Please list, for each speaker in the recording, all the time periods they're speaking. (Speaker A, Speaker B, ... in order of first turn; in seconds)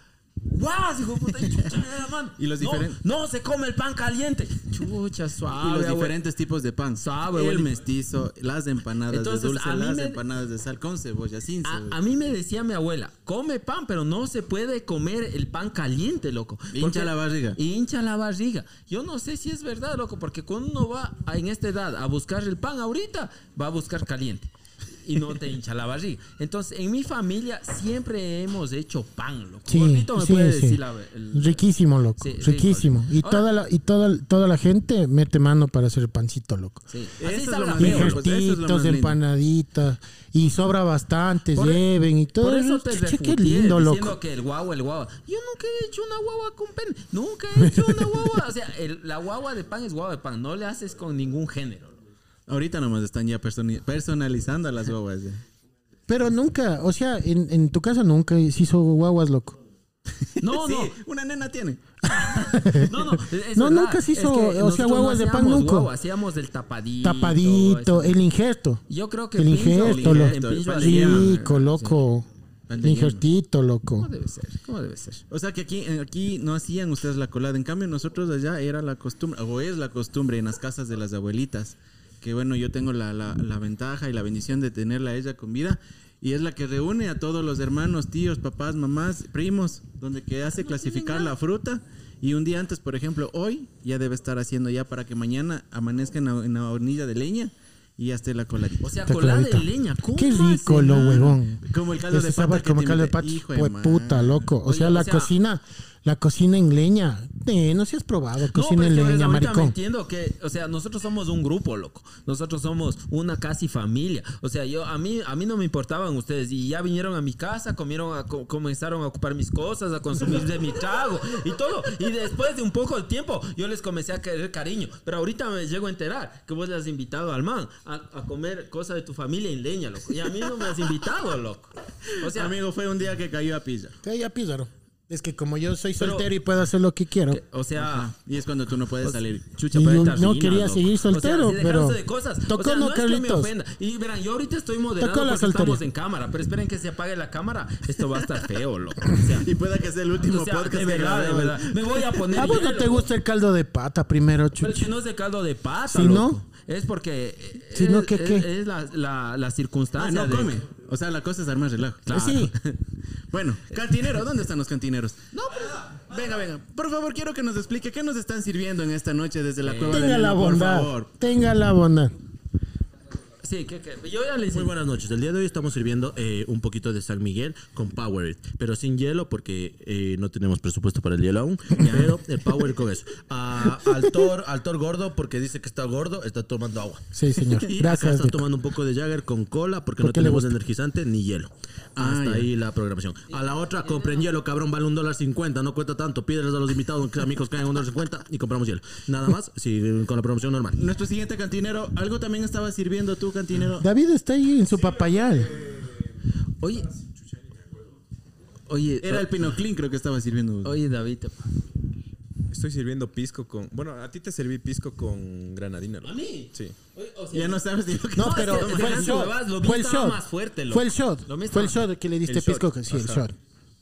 Speaker A: 0.4-6.2, 7.0-7.7, 9.1-10.2, 11.6-24.5, 25.0-31.6, 32.2-33.5, 36.9-38.3, 41.5-41.9, 42.4-52.0, 60.4-60.9, 62.1-68.2, 68.9-72.0, 74.0-75.2, 90.7-91.2, 98.8-101.2, 104.6-105.3, 108.5-132.6, 136.0-136.3, 137.3-138.1, 139.0-149.5, 150.3-153.1, 154.6-160.6, 162.1-162.8, 165.3-165.9, 169.6-170.1, 173.4-174.7, 193.3-194.2, 206.6-206.9, 208.7-209.3, 210.6-211.4, 216.0-217.6, 218.1-221.8
Speaker B: 2.4-3.0, 5.5-12.0, 16.7-17.6, 37.2-39.2, 52.5-55.4, 60.3-61.9, 69.7-71.3, 72.7-73.2, 75.3-98.9, 100.9-104.5, 132.2-134.0, 137.8-140.1, 149.3-152.2, 159.9-162.1, 163.3-165.2, 165.9-171.1, 181.8-182.2, 191.9-192.5, 200.8-203.9, 209.0-210.8, 217.3-219.3
Speaker C: 29.7-30.8, 31.3-36.8, 37.8-44.2, 47.6-48.3, 56.1-59.6, 62.1-62.9, 63.5-65.9, 67.0-68.8, 69.3-72.3, 72.8-74.1, 99.1-109.7, 134.0-137.4, 139.7-143.5, 145.0-145.8, 152.3-154.9, 155.9-156.4, 157.7-158.4, 162.1-162.5, 169.9-172.2, 187.1-188.4, 190.0-190.5, 203.8-205.5, 218.1-223.3
Speaker D: 174.5-200.8
Speaker E: 205.5-206.1, 206.9-207.8, 212.5-216.8, 222.3-223.3